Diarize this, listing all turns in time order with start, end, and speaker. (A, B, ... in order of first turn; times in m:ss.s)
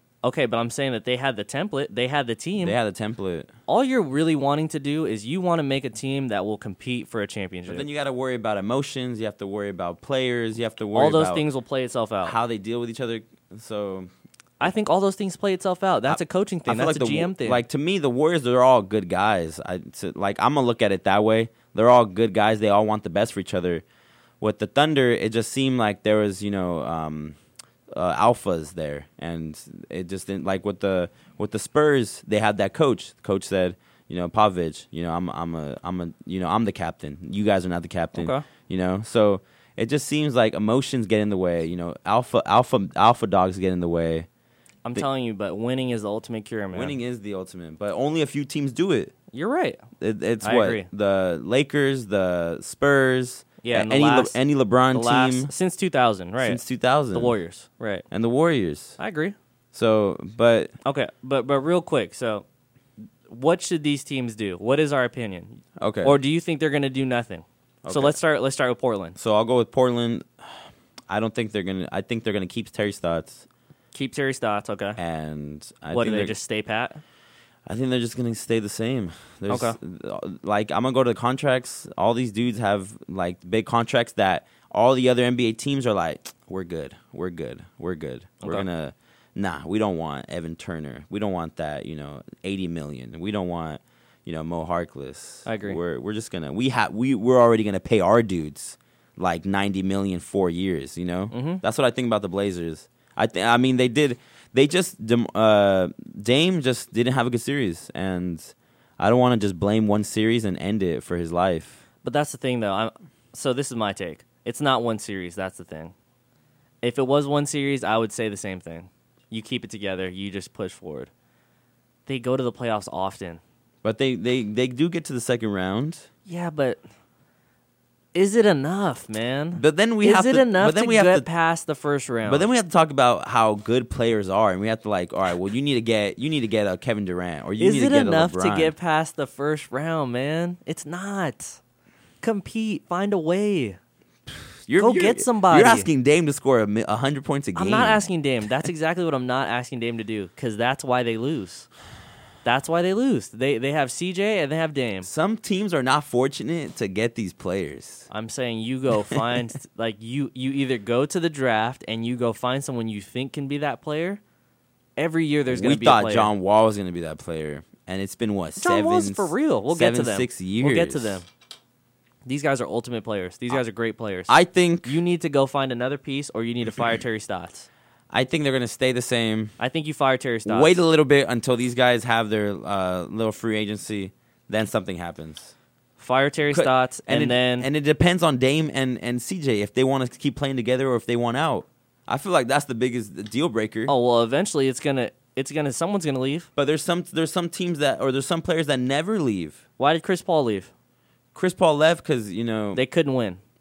0:00.2-0:02.8 A
0:02.6-0:03.5 B
0:03.7-0:07.8 A
0:07.7-0:11.4 B
0:10.9-0:12.4 A
0:12.2-0:14.1 B
0:14.6-0:17.6 A
0:16.1-0:23.8 B
0:24.4-0:27.4 B
0:27.9-0:44.3 B
0:38.1-0:38.4 A
0:44.8-0:47.0 A
0:46.7-0:49.1 B
0:49.3-0:49.8 A
0:50.0-0:55.5 B
0:50.4-0:50.9 A
0:53.6-0:54.4 A
0:54.9-0:56.6 A
0:56.4-0:57.4 B
0:57.1-0:58.0 A
0:58.1-0:59.0 B
0:59.0-0:59.4 A
0:59.7-1:00.7 B
1:00.8-1:02.4 A
1:03.3-1:09.2 A
1:05.8-1:06.2 B
1:07.8-1:08.2 B
1:09.2-1:13.4 B
1:13.9-1:15.0 A
1:15.0-1:16.4 B
1:15.9-1:17.0 A
1:17.6-1:51.8 B
1:19.5-1:19.8 A
1:28.4-1:28.6 A
1:35.4-1:35.8 A
1:41.3-1:41.6 A
1:52.0-1:55.9 A
1:56.8-2:01.1 A
2:02.1-2:03.4 A
2:03.8-2:06.1 B
2:06.2-2:06.8 A
2:08.1-2:12.5 A
2:09.5-2:11.2 B
2:12.2-2:18.7 B
2:17.6-2:21.6 A
2:22.2-2:23.8 A
2:24.6-2:28.0 B
2:24.8-2:25.9 A
2:27.5-2:31.7 A
2:32.4-2:35.1 A
2:35.0-2:38.1 B
2:38.1-2:44.2 A
2:45.0-2:46.3 A
2:45.5-2:51.2 B
2:48.6-2:51.2 A
2:52.2-2:57.7 A
2:54.3-2:55.0 B
2:58.1-2:59.5 B
2:59.6-3:00.8 A
3:00.4-3:05.5 B
3:06.0-3:07.7 A
3:06.5-3:13.9 B
3:13.9-3:16.5 A
3:16.6-3:19.6 B
3:19.8-3:20.7 A
3:21.3-3:22.8 B
3:22.7-3:23.4 A